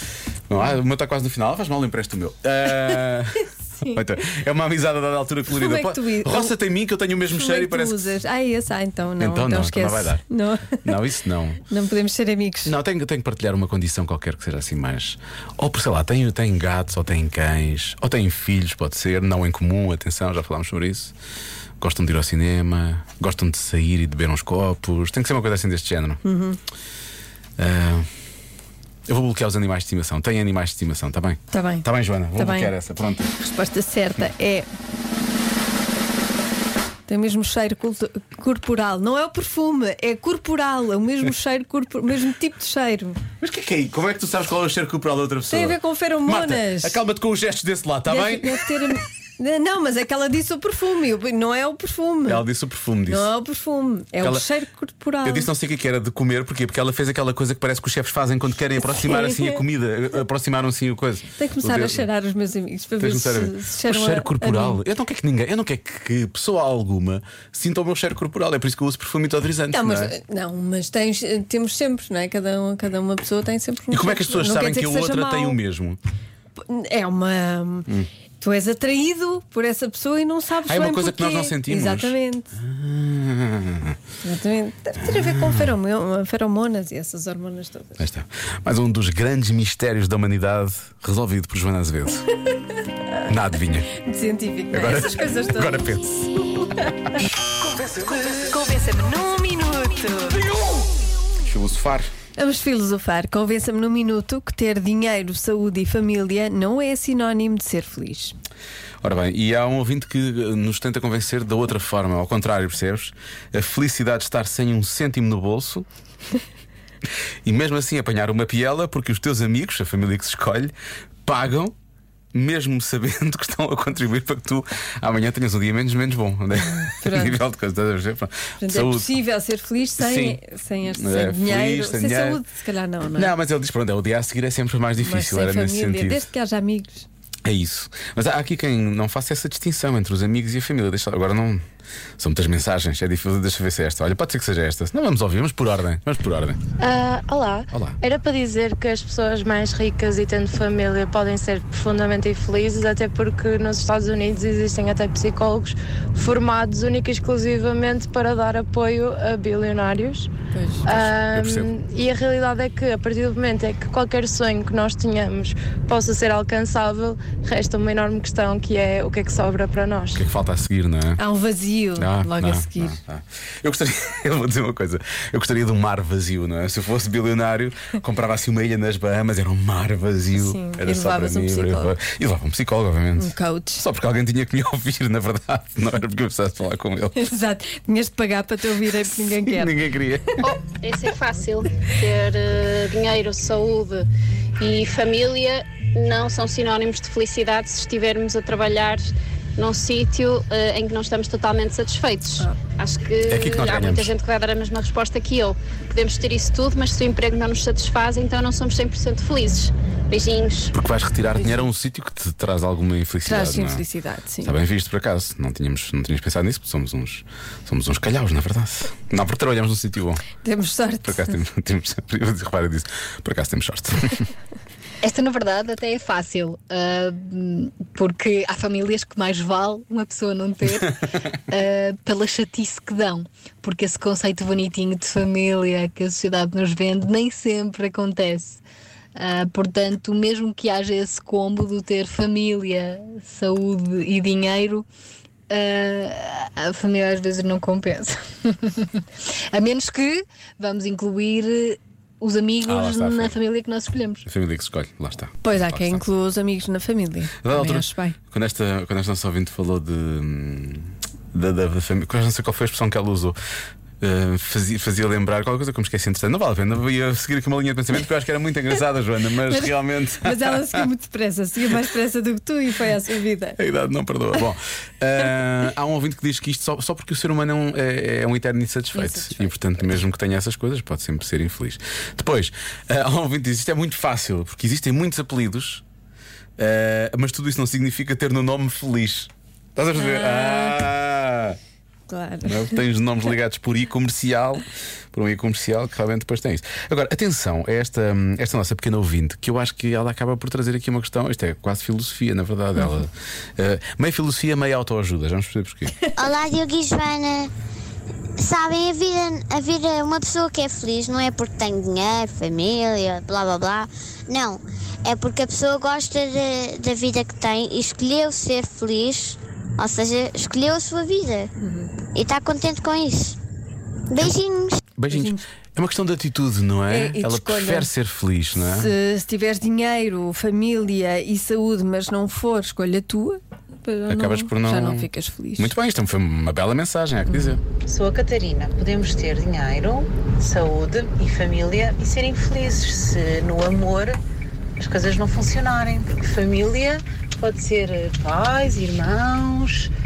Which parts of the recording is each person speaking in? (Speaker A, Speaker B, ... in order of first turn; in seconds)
Speaker A: 0.5-8.1, 9.2-10.2, 10.7-11.6, 12.6-21.1, 21.8-26.2, 27.6-28.1, 29.1-33.3, 43.4-48.9, 52.2-53.3, 54.2-54.5, 55.2-62.0, 63.0-70.1, 73.9-76.0, 80.7-84.0, 85.0-85.7, 88.0-92.3, 93.2-93.9, 94.7-96.0, 101.4-102.1, 109.0-115.8, 117.5-120.7, 121.2-121.7, 122.3-129.1, 130.0-132.4, 133.1-136.3, 137.4-141.6, 142.2-146.6, 160.9-161.7, 170.1-171.2, 172.0-187.2, 189.4-190.5, 203.2-204.1, 210.7-213.8, 214.4-220.2, 221.0-224.2, 252.6-253.4, 254.2-256.0, 257.4-263.4, 264.0-270.9, 273.6-285.8, 286.6-291.6, 292.5-306.0, 325.0-328.9, 334.1-337.6
Speaker B: 5.5-6.5, 7.3-10.9, 11.7-12.7, 26.2-26.6, 31.5-32.7, 33.3-34.7, 37.1-43.2, 45.5-47.0, 48.1-52.4, 53.0-55.5, 58.8-59.6, 61.4-64.8, 69.7-75.6, 76.6-77.9, 78.4-82.5, 84.2-88.0, 94.0-95.8, 98.1-100.5, 102.3-108.3, 126.6-127.4, 128.6-133.3, 135.0-137.1, 160.5-160.8, 171.2-173.0, 180.3-181.9, 183.2-183.8, 187.2-189.8, 213.2-214.5, 220.4-221.4, 255.4-258.2, 269.5-273.6, 278.9-279.5, 289.9-290.9, 292.1-292.8, 321.6-321.9, 325.1-325.4, 326.9-327.9, 328.6-335.7
Speaker C: 146.8-160.3, 160.8-170.2
Speaker D: 190.4-194.0, 194.6-210.7
Speaker E: 225.0-238.6, 239.2-244.8, 245.5-249.0, 249.5-254.2
Speaker F: 306.1-307.5, 308.4-321.5, 322.1-323.4, 324.1-324.8
Speaker G: 337.8-344.2, 344.8-349.9